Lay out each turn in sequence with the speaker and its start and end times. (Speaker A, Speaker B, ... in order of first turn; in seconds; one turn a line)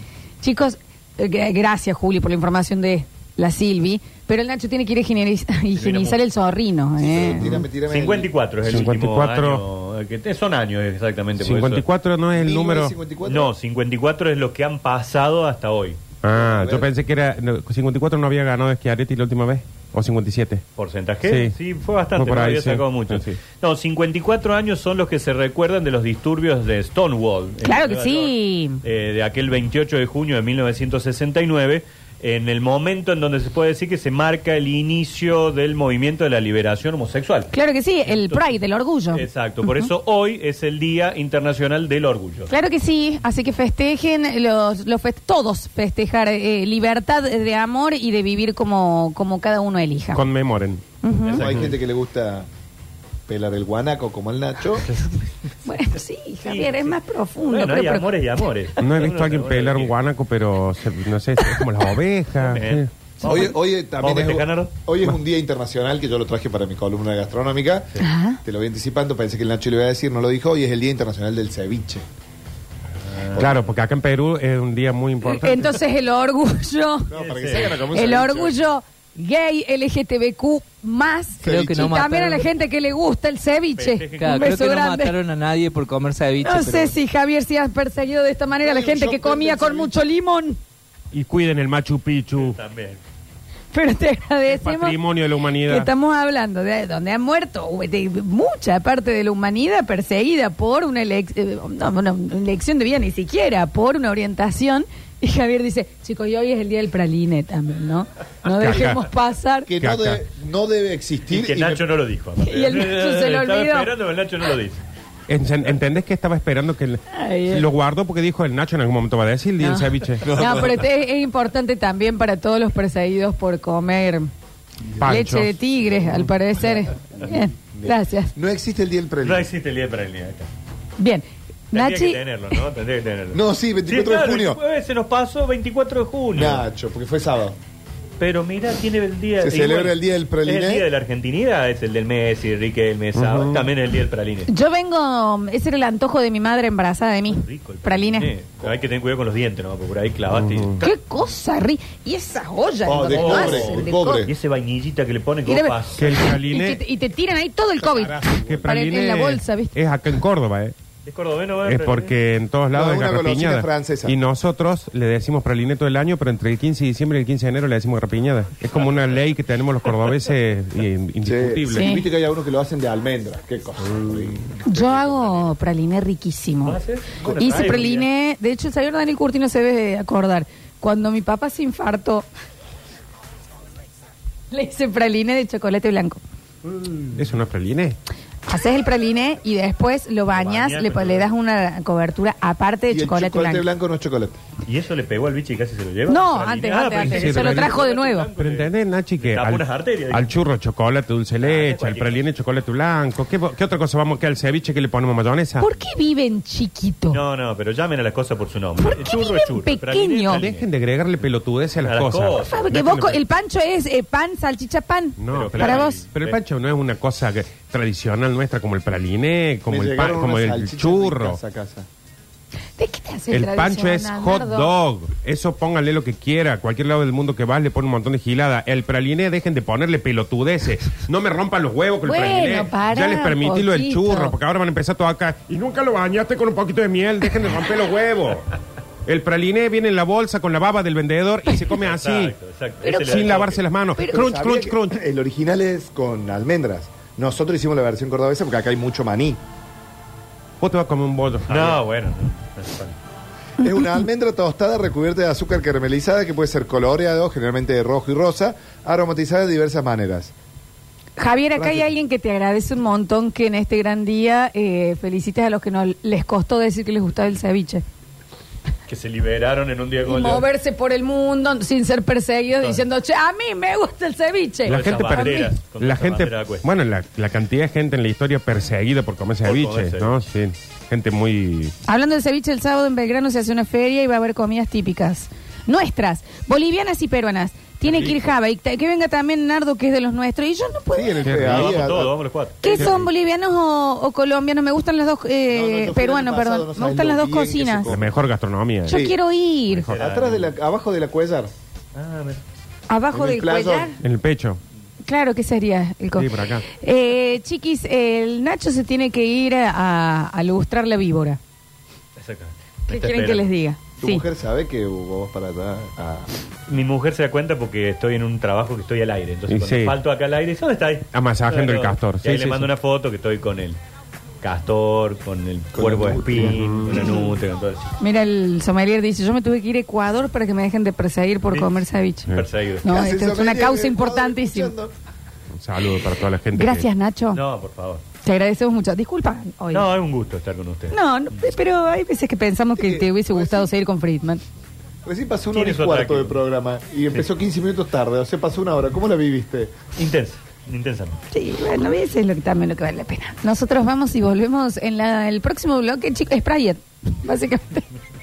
Speaker A: 0.4-7.6
Speaker B: 5.8-6.2
Speaker C: 7.0-8.3
Speaker B: 7.3-11.8
Speaker D: 8.6-9.6
Speaker D: 11.4-12.9
Speaker C: 12.3-13.5
Speaker B: 13.2-16.0
Speaker D: 16.2-20.6
Speaker C: 16.3-16.9
Speaker B: 20.8-37.5
Speaker D: 21.2-21.6
Speaker D: 22.2-23.4
Speaker A: 27.6-28.8
Speaker A: 37.5-39.9
Speaker B: 38.1-38.5
Speaker B: 39.1-42.5
Speaker A: 42.5-50.2
Speaker D: 50.1-50.8
Speaker A: 51.0-51.4
Speaker B: 51.2-51.8
Speaker C: 51.4-52.5
Speaker C: 53.3-54.9
Speaker B: 54.8-55.2
Speaker A: 55.6-58.2
Speaker B: 56.4-59.9
Speaker D: 58.8-62.9
Speaker A: 61.4-61.7
Speaker B: 62.4-64.7
Speaker C: 63.2-72.0
Speaker A: 63.2-63.5
Speaker A: 68.0-68.4
Speaker B: 73.1-73.5
Speaker D: 73.3-75.7
Speaker A: 75.2-85.2
Speaker C: 77.1-78.6
Speaker B: 77.1-77.9
Speaker C: 81.4-82.0
Speaker E: 81.5-82.5
Speaker B: 83.8-84.5
Speaker E: 84.2-87.0
Speaker A: 86.4-90.6
Speaker C: 88.6-90.0
Speaker D: 91.1-92.6
Speaker B: 92.3-93.0
Speaker A: 93.7-95.0
Speaker D: 94.5-95.9
Speaker A: 95.7-109.7
Speaker D: 108.5-109.0
Speaker C: 109.7-111.9
Speaker D: 109.8-110.2
Speaker B: 111.3-114.8
Speaker A: 112.4-113.9
Speaker D: 115.3-120.3
Speaker A: 117.1-117.7
Speaker A: 119.6-124.3
Speaker C: 120.2-120.9
Speaker D: 125.0-125.5
Speaker A: 125.0-128.3
Speaker C: 127.7-129.5
Speaker B: 129.2-130.5
Speaker A: 131.0-132.2
Speaker B: 131.7-136.7
Speaker C: 133.3-134.6
Speaker C: 136.3-137.6
Speaker B: 138.2-144.5
Speaker C: 139.4-140.9
Speaker D: 143.2-143.7
Speaker A: 144.5-148.3
Speaker B: 147.3-150.9
Speaker D: 150.3-150.8
Speaker A: 150.8-154.3
Speaker C: 152.8-154.3
Speaker B: 153.1-156.2
Speaker A: 155.5-159.8
Speaker D: 155.9-156.8
Speaker C: 157.8-158.7
Speaker D: 158.2-160.8
Speaker B: 161.1-162.2
Speaker D: 161.6-171.9
Speaker C: 162.7-164.2
Speaker C: 171.2-175.5
Speaker A: 171.7-172.0
Speaker A: 174.7-176.8
Speaker B: 176.7-178.1
Speaker C: 177.2-177.9
Speaker A: 177.4-182.3
Speaker A: 184.5-186.2
Speaker B: 186.6-187.3
Speaker D: 187.2-188.0
Speaker A: 188.5-193.7
Speaker B: 190.3-191.3
Speaker C: 192.9-194.4
Speaker B: 194.7-200.3
Speaker A: 196.1-198.3
Speaker D: 197.0-197.8
Speaker D: 198.3-205.7
Speaker B: 201.4-202.2
Speaker A: 205.6-207.2
Speaker B: 207.1-210.7
Speaker A: 208.8-210.4
Speaker D: 210.3-213.2
Speaker B: 211.8-212.7
Speaker A: 212.4-216.0
Speaker D: 215.2-221.4
Speaker B: 215.3-216.4
Speaker C: 219.7-221.9
Speaker A: 222.8-224.7
Speaker D: 223.3-245.0
Speaker A: 232.0-234.4
Speaker B: 241.7-243.6
Speaker A: 242.9-243.1
Speaker C: 244.0-249.4
Speaker D: 250.6-251.8
Speaker B: 251.5-252.9
Speaker A: 253.6-254.1
Speaker C: 253.6-260.3
Speaker A: 261.2-267.8
Speaker C: 261.6-261.9
Speaker B: 268.9-270.5
Speaker A: 270.1-275.5
Speaker B: 272.6-272.9
Speaker D: 274.7-281.8
Speaker B: 274.7-276.7
Speaker B: 279.4-280.1
Speaker A: 281.9-291.3
Speaker C: 290.9-292.1
Speaker D: 291.2-291.9
Speaker B: 291.4-292.9
Speaker A: 292.6-297.9
Speaker D: 292.7-293.1
Speaker C: 295.5-298.1
Speaker D: 297.9-299.0
Speaker A: 298.9-299.9
Speaker C: 298.9-299.2
Speaker B: 299.9-300.6
Speaker C: 299.9-301.5
Speaker B: 301.9-302.4
Speaker A: 302.9-304.0
Speaker C: 303.1-304.0
Speaker D: 304.0-304.6
Speaker A: 305.1-311.4
Speaker D: 306.2-306.6
Speaker B: 312.2-313.5
Speaker A: 312.9-314.2
Speaker C: 314.0-316.3
Speaker B: 316.7-323.8
Speaker D: 319.5-320.0
Speaker D: 321.1-322.7
Speaker B: 324.4-327.9
Speaker C: 325.8-326.6
Speaker D: 326.4-327.0
Speaker A: 328.0-332.3
Speaker B: 332.3-333.0
Speaker A: 332.8-334.7
Speaker C: 332.8-334.9
Speaker D: 335.5-336.9
Speaker A: 336.6-337.4
Speaker B: 337.3-338.0
Speaker A: 338.2-339.9
Speaker B: 339.7-341.5
Speaker A: 340.9-344.4
Speaker C: 342.8-343.7
Speaker C: 345.1-349.8
Speaker B: 345.5-346.4
Speaker B: 350.0-351.2
Speaker A: 351.3-357.9